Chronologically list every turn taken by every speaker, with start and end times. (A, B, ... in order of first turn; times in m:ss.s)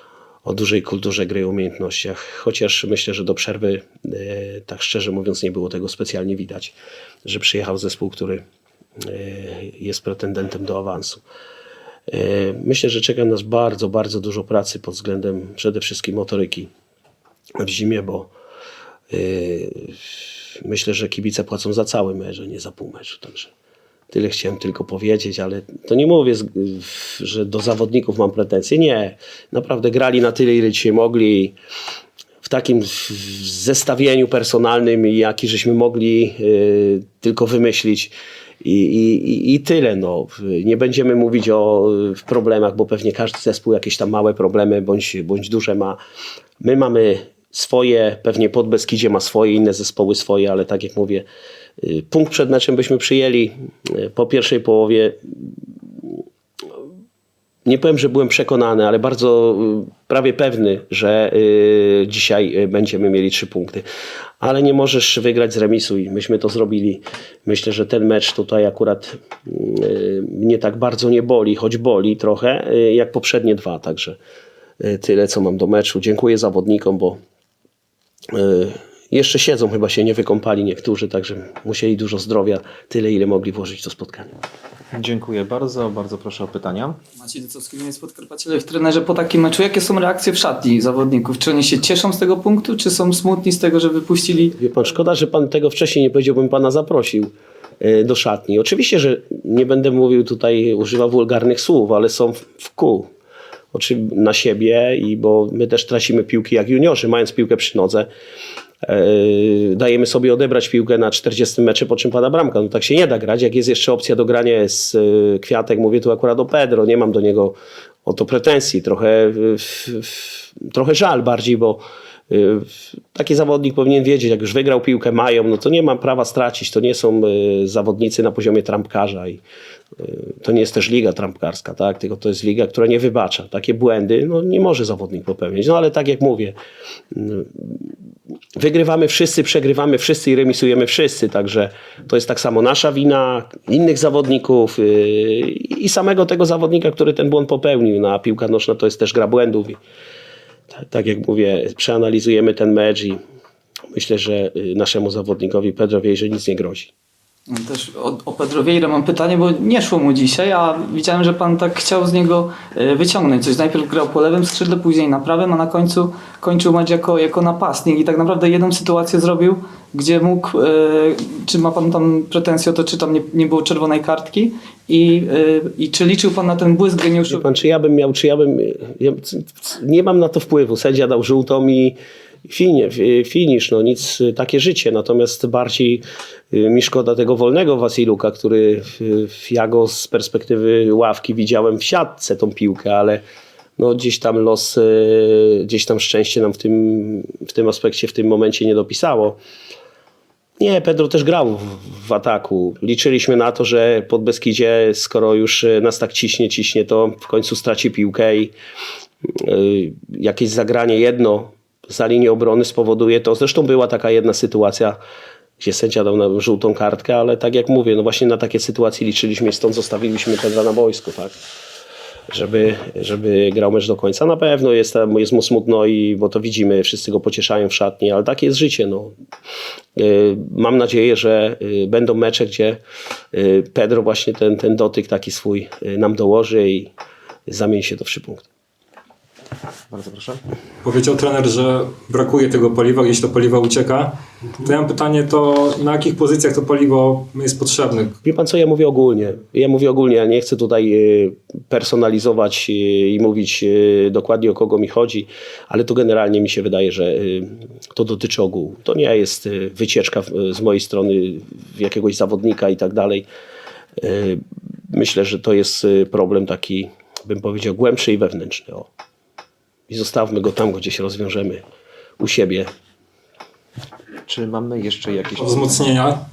0:00.4-0:08.4 A
0:09.0-0:11.2 A
0:12.1-0:16.7 A
0:17.6-0:18.3 A
0:19.1-0:20.0 A
0:20.6-0:23.5 A
0:24.1-0:31.5 A
0:32.4-0:46.0 A
0:46.6-0:51.2 A
0:51.8-0:56.2 A
0:57.6-1:03.8 A
1:04.4-1:14.2 A
1:14.8-1:17.2 A
1:18.3-1:24.3 A
1:24.9-1:27.0 B
1:27.2-1:34.6 C
1:34.6-1:43.1 A
1:43.7-1:48.1 A
1:48.8-2:09.4 A
2:10.0-2:16.6 A
2:17.1-2:17.9 A
2:18.6-2:29.8 A
2:30.7-2:33.2 A
2:33.9-2:36.9 A
2:37.5-2:57.4 C
2:57.3-3:02.0 A
3:02.5-3:13.2 A
3:13.8-3:19.4 A
3:20.6-3:28.5 A
3:29.2-3:35.0 A
3:35.6-3:41.4 A
3:42.3-3:49.1 A
3:50.0-3:52.8 A
3:53.3-3:56.9 A
3:57.5-3:58.4 A
3:59.9-4:00.4 B
4:00.8-4:08.1 D
4:08.2-4:23.3 A
4:24.0-4:28.9 A
4:29.9-4:31.6 A
4:32.2-4:32.7 A
4:34.3-4:35.9 B
4:35.4-4:36.2 D